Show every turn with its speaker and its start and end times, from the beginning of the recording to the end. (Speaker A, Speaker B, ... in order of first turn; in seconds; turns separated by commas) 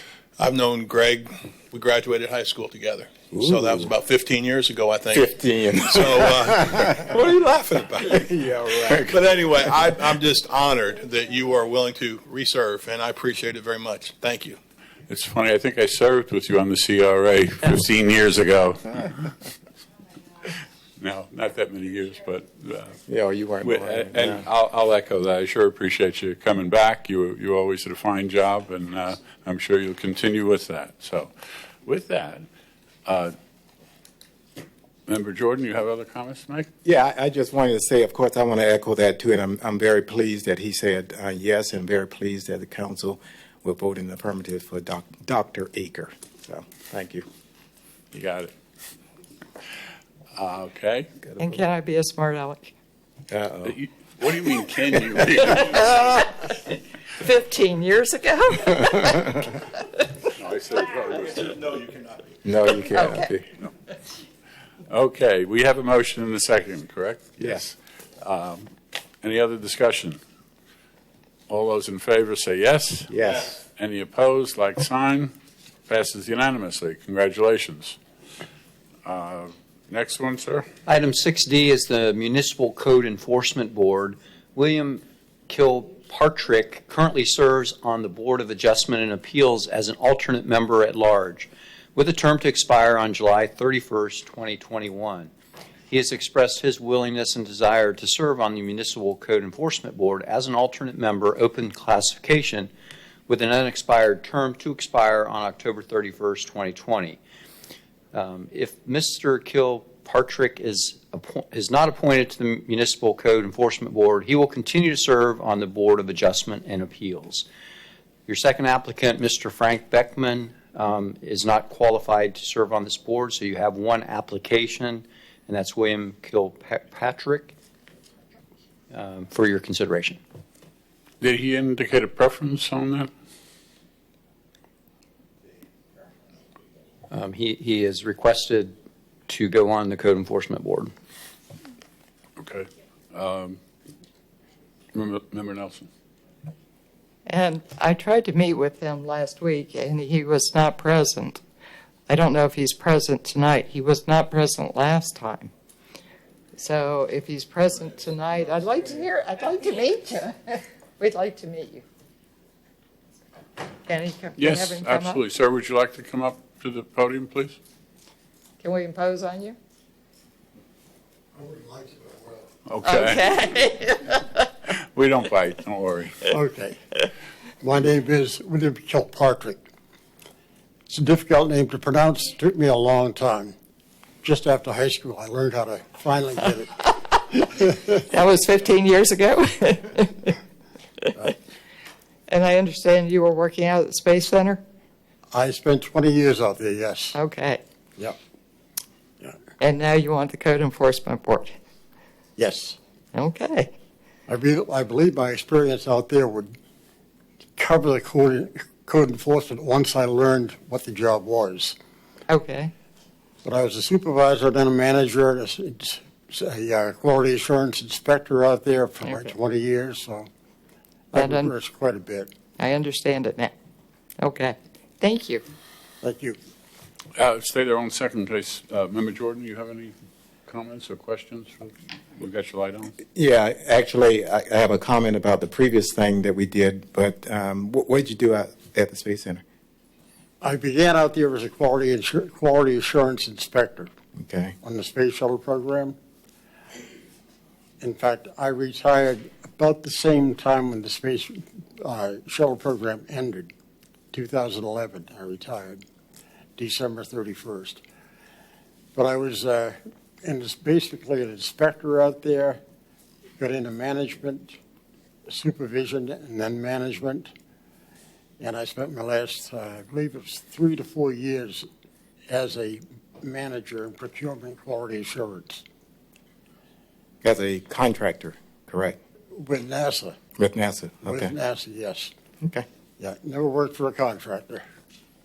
Speaker A: 0.4-8.4, Speaker B: 3.3-3.9, Speaker B: 5.1-7.1, Speaker B: 8.0-9.2, Speaker A: 8.9-14.6, Speaker C: 15.1-19.3, Speaker C: 21.0-23.0, Speaker B: 23.1-24.4, Speaker C: 23.6-31.3, Speaker C: 31.8-32.5, Speaker C: 33.0-33.3, Speaker C: 35.1-36.7, Speaker B: 36.8-47.2, Speaker C: 48.1-48.5, Speaker C: 50.3-51.1, Speaker B: 51.3-51.6, Speaker D: 51.4-52.7, Speaker B: 53.3-53.8, Speaker C: 53.6-56.0, Speaker D: 55.5-56.5, Speaker D: 57.1-59.8, Speaker C: 60.3-61.9, Speaker B: 62.4-63.5, Speaker D: 62.9-63.3, Speaker C: 64.9-68.7, Speaker B: 67.4-67.6, Speaker C: 69.2-70.2, Speaker C: 71.5-75.3, Speaker B: 73.1-73.5, Speaker C: 75.9-78.0, Speaker C: 79.0-80.7, Speaker E: 80.9-95.3, Speaker E: 95.9-102.7, Speaker E: 103.3-107.2, Speaker E: 108.1-117.5, Speaker E: 118.3-127.5, Speaker E: 128.9-130.2, Speaker C: 131.2-133.1, Speaker E: 137.1-138.8, Speaker E: 139.3-140.9, Speaker C: 142.4-143.6, Speaker C: 144.9-145.9, Speaker D: 147.3-151.4, Speaker D: 152.1-155.5, Speaker D: 156.6-161.8, Speaker D: 163.9-165.2, Speaker C: 164.4-167.6, Speaker D: 168.6-169.6, Speaker F: 171.4-172.5, Speaker C: 172.7-173.3, Speaker D: 172.8-174.4, Speaker C: 174.7-176.2, Speaker F: 176.3-176.8, Speaker F: 177.6-179.6, Speaker F: 180.9-183.6, Speaker F: 184.2-186.9, Speaker D: 188.0-190.4, Speaker D: 192.3-194.6, Speaker F: 195.3-197.2, Speaker D: 197.1-197.6, Speaker D: 199.6-201.6, Speaker F: 202.4-202.8, Speaker D: 203.1-203.7, Speaker F: 204.3-206.6, Speaker F: 207.6-211.8, Speaker D: 212.3-212.7, Speaker F: 213.4-220.3, Speaker F: 221.1-222.3, Speaker D: 221.2-221.5, Speaker D: 222.6-223.5, Speaker D: 224.2-225.4, Speaker F: 226.0-226.4, Speaker C: 227.2-229.9, Speaker C: 230.5-232.9, Speaker B: 233.2-239.4, Speaker F: 240.4-243.9, Speaker B: 244.2-244.6, Speaker F: 244.6-246.0, Speaker F: 247.8-253.5, Speaker F: 254.1-255.8, Speaker F: 256.6-257.8, Speaker F: 258.9-262.6, Speaker F: 263.4-264.5, Speaker F: 265.3-267.3, Speaker F: 268.4-271.7, Speaker F: 272.3-275.6, Speaker B: 277.2-279.0, Speaker F: 279.3-280.1, Speaker B: 280.4-281.3, Speaker F: 281.0-282.1, Speaker F: 283.0-284.6